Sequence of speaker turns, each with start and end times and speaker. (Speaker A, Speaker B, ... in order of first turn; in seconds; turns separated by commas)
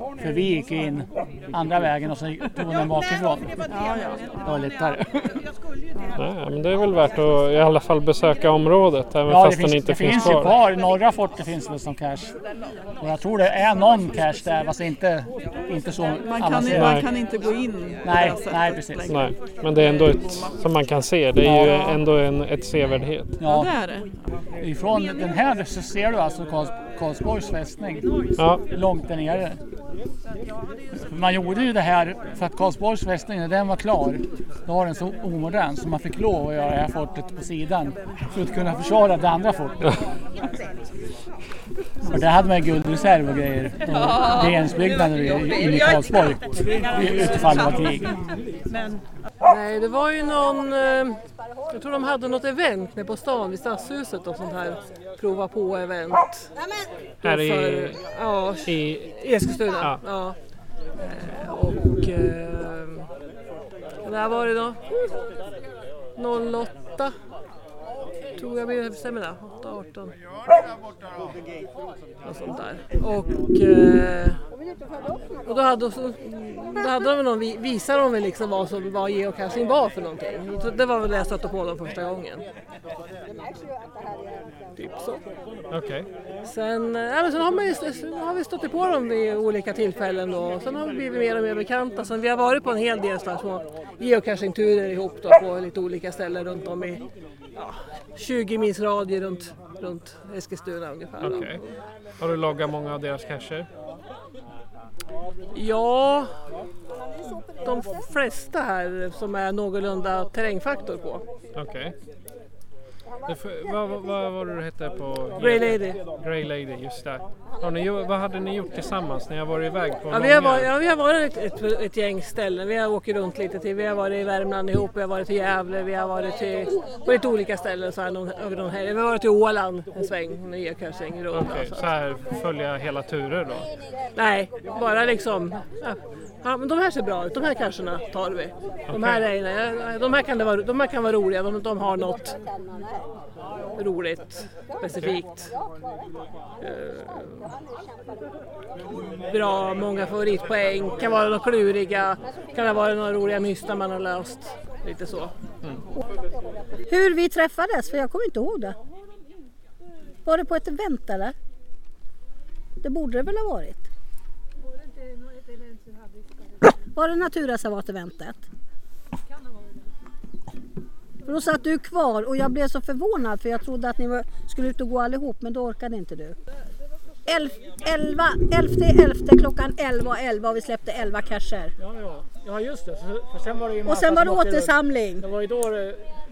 Speaker A: 0.2-3.5, Speaker B: 3.7-4.5, Speaker A: 4.4-5.4, Speaker C: 6.2-10.5, Speaker A: 9.2-12.3, Speaker A: 13.0-17.0, Speaker B: 16.2-20.5, Speaker C: 16.7-17.1, Speaker A: 18.0-19.0, Speaker C: 19.1-23.4, Speaker A: 21.4-21.9, Speaker A: 23.4-23.7, Speaker B: 23.4-24.1, Speaker A: 24.6-28.0, Speaker C: 28.4-28.6, Speaker A: 28.7-29.6, Speaker A: 31.0-40.0, Speaker A: 42.1-48.1, Speaker D: 49.4-56.5, Speaker D: 57.2-63.1, Speaker C: 57.2-60.2, Speaker D: 64.0-64.8, Speaker D: 66.1-67.1, Speaker D: 68.3-70.1, Speaker D: 72.2-74.4, Speaker D: 75.4-82.4, Speaker D: 84.8-85.2, Speaker C: 85.7-86.0, Speaker D: 86.4-97.0, Speaker D: 97.5-101.7, Speaker C: 101.2-101.6, Speaker C: 102.2-103.7, Speaker D: 105.5-106.3, Speaker D: 107.6-111.2, Speaker C: 111.5-111.9, Speaker C: 113.2-120.7, Speaker D: 115.4-116.0, Speaker D: 120.1-131.9, Speaker C: 131.3-133.7, Speaker D: 134.1-142.4, Speaker C: 138.9-139.2, Speaker D: 143.8-145.5, Speaker D: 146.6-147.5, Speaker D: 149.2-155.3, Speaker E: 156.9-158.8, Speaker E: 160.2-161.3, Speaker E: 162.8-163.9, Speaker E: 166.9-168.4, Speaker E: 171.2-176.4, Speaker E: 177.3-181.7, Speaker A: 181.8-186.0, Speaker E: 183.8-185.3